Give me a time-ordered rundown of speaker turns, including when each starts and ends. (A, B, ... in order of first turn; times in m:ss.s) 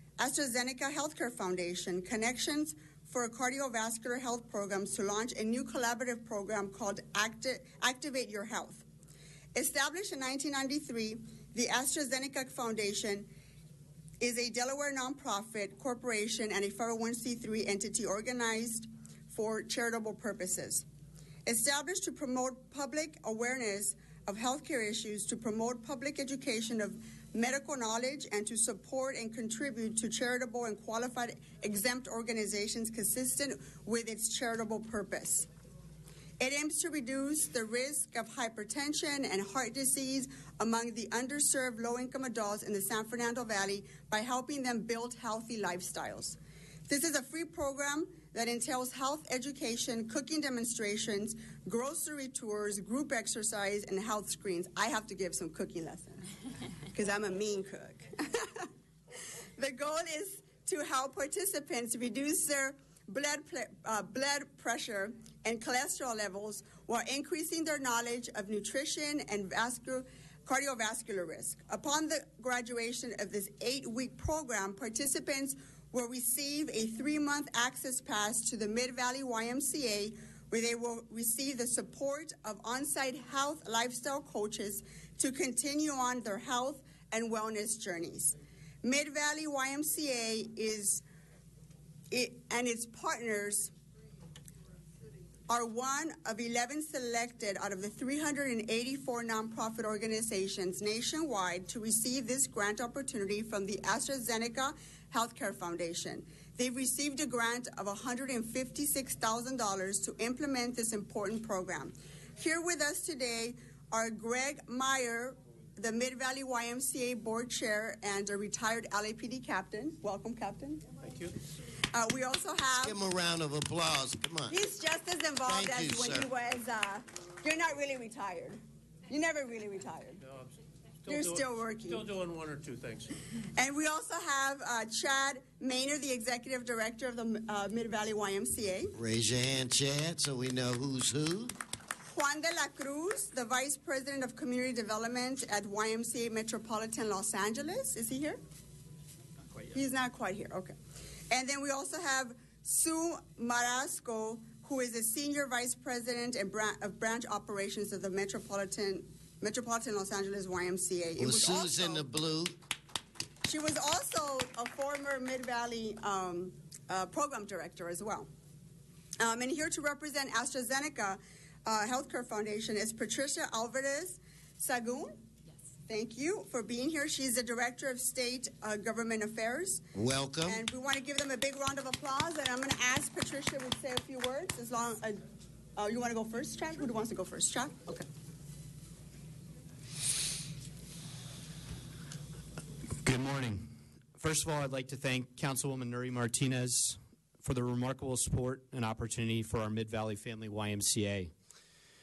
0:00.2-0:08.8 A
0:09.5-0:13.3 A
0:14.2-0:20.8 A
0:21.4-0:35.5 A
0:36.4-0:46.4 A
0:46.9-0:56.2 A
0:56.9-0:58.6 A
0:59.6-1:31.0 A
1:32.1-1:33.7 A
1:35.5-2:00.8 A
2:01.0-2:01.3 B
2:01.9-2:03.0 A
2:02.8-2:04.5 C
2:04.5-2:08.6 A
2:05.4-2:06.3 C
2:09.1-2:10.2 A
2:10.2-2:13.1 B
2:11.1-2:12.1 A
2:13.6-2:18.9 A
2:18.9-2:21.5 C
2:22.1-2:28.4 A
2:29.7-2:30.8 A
2:31.3-2:42.0 A
2:41.2-2:42.6 C
2:43.4-2:48.3 A
2:49.2-2:55.2 A
2:55.9-2:59.8 A
2:59.9-3:00.6 C
3:00.4-3:05.2 A
3:05.8-3:08.0 A
3:13.0-3:21.3 D